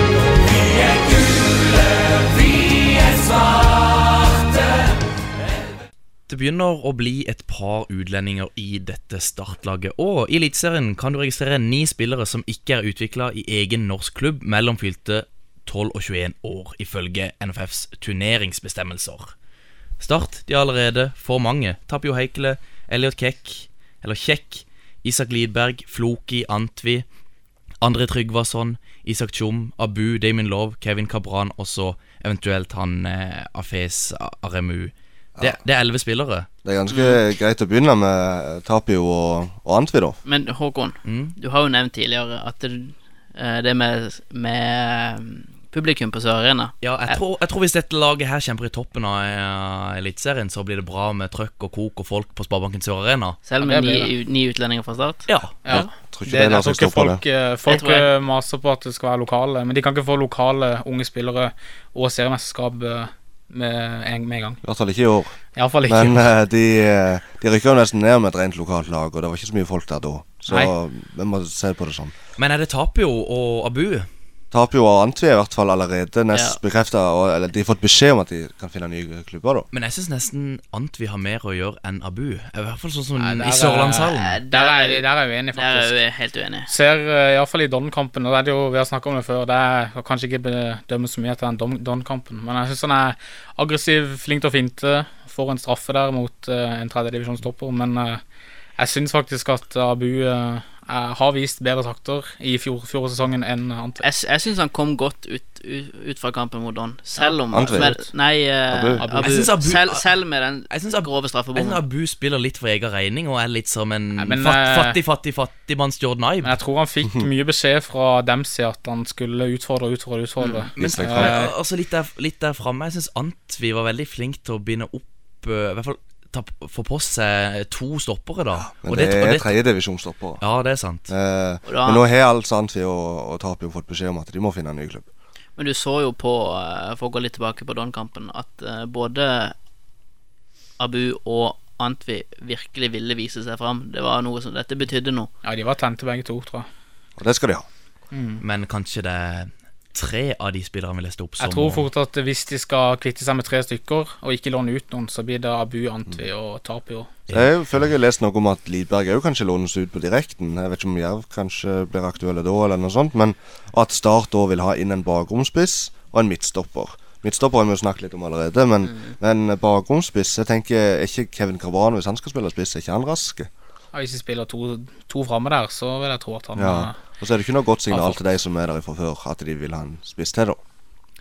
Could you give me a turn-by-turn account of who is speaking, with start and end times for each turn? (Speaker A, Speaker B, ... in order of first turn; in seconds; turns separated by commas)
Speaker A: 0.4-4.9, Speaker B: 6.3-19.3, Speaker B: 20.0-27.1, Speaker B: 27.8-36.5, Speaker C: 36.6-40.2, Speaker D: 40.2-47.2, Speaker B: 41.0-41.4, Speaker B: 46.8-53.4, Speaker D: 53.5-55.8, Speaker E: 53.6-54.1, Speaker B: 55.3-55.6, Speaker E: 55.6-64.6, Speaker C: 55.7-57.2, Speaker D: 57.7-58.1, Speaker C: 64.6-65.4, Speaker E: 65.6-66.3, Speaker C: 65.9-72.2, Speaker B: 72.4-74.1, Speaker C: 74.5-79.7, Speaker D: 76.3-76.6, Speaker B: 79.7-84.4, Speaker E: 83.2-86.0, Speaker D: 84.1-86.7, Speaker E: 86.7-98.2, Speaker E: 98.8-104.0, Speaker D: 104.0-111.8, Speaker E: 107.2-108.1, Speaker C: 107.5-107.9, Speaker C: 108.7-109.0, Speaker E: 109.0-109.5, Speaker B: 109.2-110.1, Speaker B: 110.7-116.6, Speaker E: 114.2-115.0, Speaker E: 116.4-121.5, Speaker D: 120.4-120.7, Speaker C: 120.8-121.5, Speaker B: 120.8-129.6, Speaker C: 128.7-130.4, Speaker B: 130.4-131.1, Speaker C: 131.1-135.1, Speaker D: 131.7-132.0, Speaker D: 135.6-139.6, Speaker D: 140.8-145.3, Speaker E: 145.4-146.7, Speaker C: 147.2-147.7, Speaker E: 148.1-148.4, Speaker B: 148.4-151.9, Speaker E: 151.4-157.1, Speaker C: 157.3-173.5, Speaker E: 173.9-177.0, Speaker C: 176.6-180.6, Speaker E: 177.9-178.2